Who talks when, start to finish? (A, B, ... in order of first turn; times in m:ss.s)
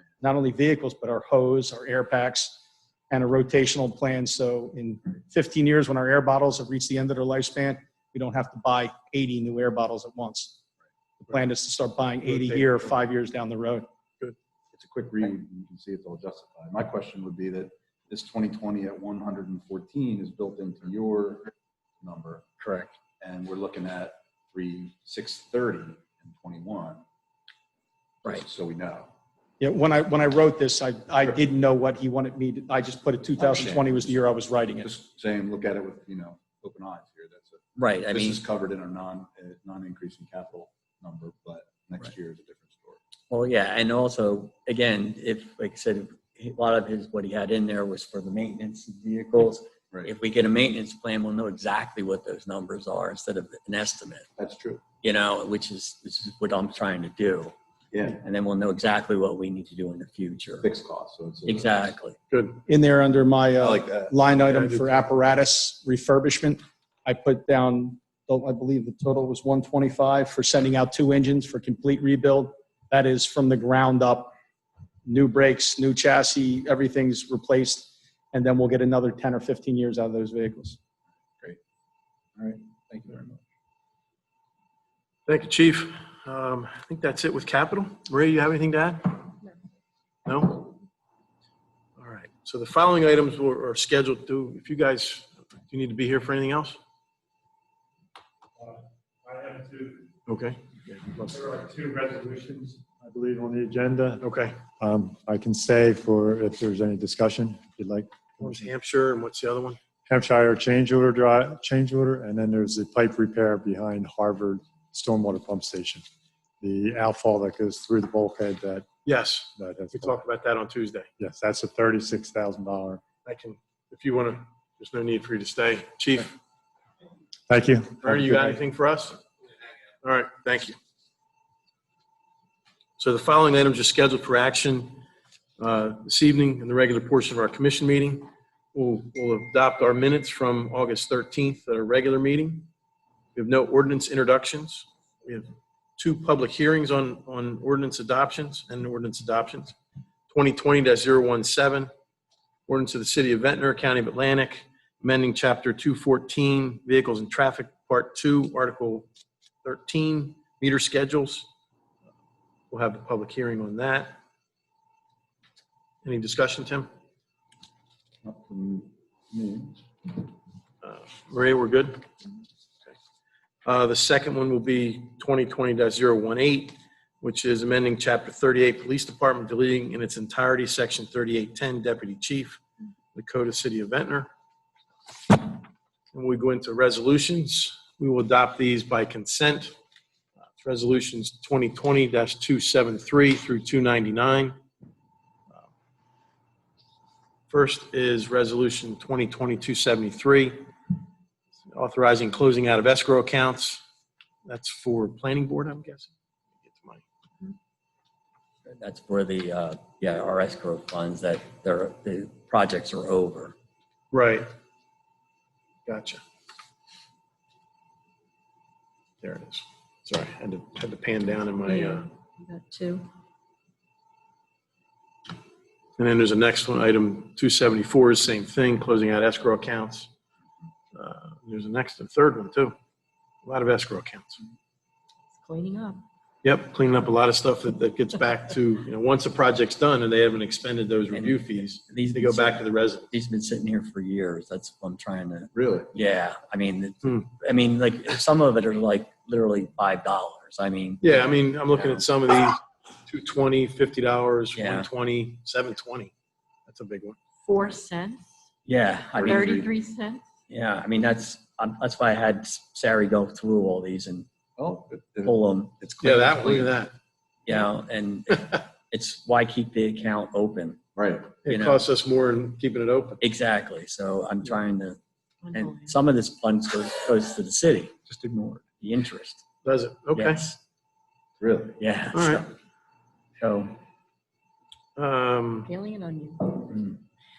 0:00.2-0:02.6 A
0:03.1-0:10.6 A
0:11.2-0:13.9 A
0:12.3-0:12.9 B
0:14.7-0:22.5 C
0:22.6-0:22.9 D
0:23.2-0:27.0 C
0:28.2-0:29.1 C
0:29.6-0:34.9 A
0:33.4-0:34.2 C
0:34.8-0:43.0 C
0:37.8-0:38.4 D
0:43.3-0:54.3 D
0:54.4-0:54.8 C
0:55.0-0:57.5 D
0:57.9-0:58.2 C
0:58.2-1:00.7 D
1:00.6-1:01.7 C
1:01.5-1:02.2 D
1:02.3-1:02.6 B
1:02.7-1:14.3 A
1:03.6-1:04.2 C
1:04.5-1:04.9 B
1:15.1-1:20.8 A
1:22.4-1:23.4 C
1:25.3-1:29.4 B
1:30.3-1:30.7 B
1:32.0-1:36.8 B
1:38.6-1:40.1 E
1:40.3-1:41.4 B
1:41.3-1:44.2 E
1:44.2-1:44.6 B
1:44.8-1:48.1 E
1:48.4-1:49.8 B
1:50.1-1:56.0 E
1:56.6-1:58.8 E
1:59.0-2:01.1 B
1:59.6-2:00.1 E
2:01.2-2:03.0 E
2:03.2-2:06.4 B
2:07.5-2:08.4 E
2:08.0-2:09.2 B
2:10.0-2:10.8 B
2:13.0-2:15.0 B
2:15.6-2:22.7 B
2:23.4-2:29.8 B
2:30.3-2:31.9 B
2:32.7-2:39.1 B
2:39.6-2:41.5 B
2:42.7-2:44.2 B
2:46.0-2:46.9 B
2:48.2-2:49.8 C
2:50.8-2:52.1 B
2:53.6-3:02.6 B
3:03.1-3:04.3 B
3:06.1-3:09.8 B
3:10.6-3:14.6 B
3:17.5-3:20.7 B
3:21.7-3:23.8 B
3:24.5-3:26.1 B
3:26.6-3:27.0 B
3:28.7-3:33.6 D
3:34.1-3:34.5 B
3:35.9-3:36.2 B
3:39.2-3:42.1 B
3:41.6-3:43.1 F
3:46.0-3:50.1 B
3:50.9-3:52.8 B
3:53.4-3:54.4 B
3:55.4-3:56.0 F
3:56.4-4:03.1 B
4:01.1-4:12.0 D
4:05.5-4:05.9 C
4:11.0-4:16.1 B
4:14.6-4:14.9 D
4:16.7-4:17.2 B
4:17.4-4:18.3 F
4:18.7-4:19.6 D
4:19.2-4:19.7 C
4:19.2-4:20.2 F
4:20.5-4:24.3 D
4:24.6-4:25.4 C
4:25.2-4:26.7 D
4:26.0-4:26.9 B
4:27.4-4:30.8 D
4:31.0-4:31.3 C
4:31.4-4:33.2 B
4:31.5-4:31.8 D
4:33.2-4:35.0 D
4:35.4-4:36.0 F
4:35.5-4:39.4 D
4:39.6-4:40.4 B
4:40.1-4:40.6 D
4:41.4-4:41.8 C
4:41.8-4:42.5 D
4:42.1-4:42.4 B
4:43.4-4:43.8 D
4:45.0-4:45.7 B
4:45.7-4:46.7 F
4:46.7-4:47.0 D